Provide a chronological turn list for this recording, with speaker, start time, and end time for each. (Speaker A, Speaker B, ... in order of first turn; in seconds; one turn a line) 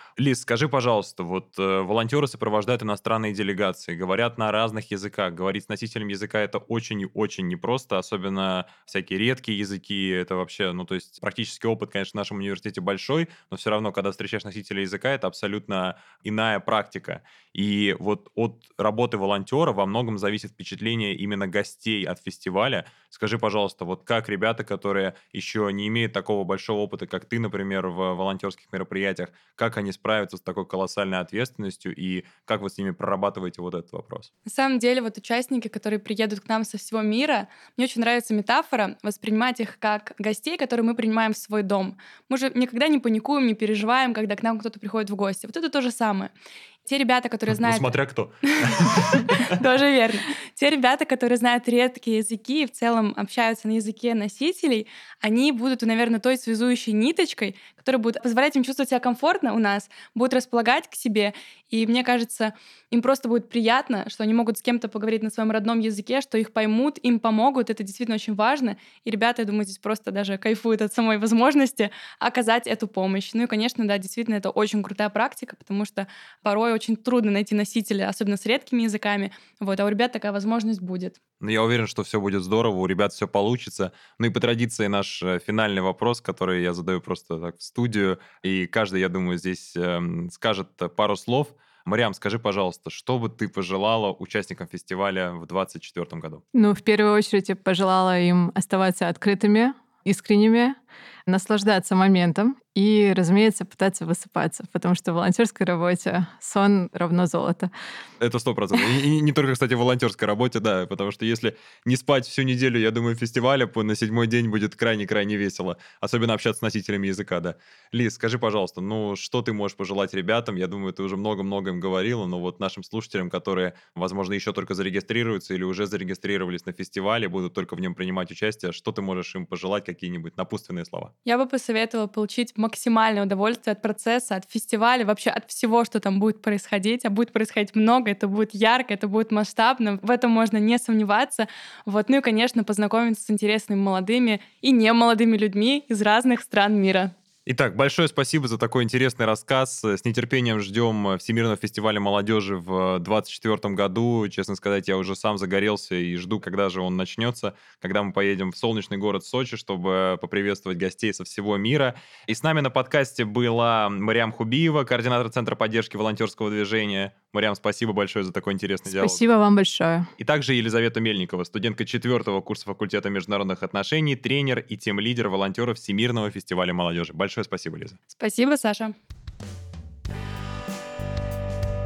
Speaker A: 0.2-34.3
Speaker B: 34.5-46.3
Speaker B: 46.8-47.9
Speaker A: 47.5-49.5
Speaker B: 48.5-81.2
Speaker A: 81.4-96.4
Speaker C: 96.5-107.7
Speaker A: 108.2-131.1
Speaker B: 131.2-147.1
Speaker A: 147.4-169.2
Speaker C: 168.9-170.1
Speaker A: 170.2-178.0
Speaker B: 178.1-178.9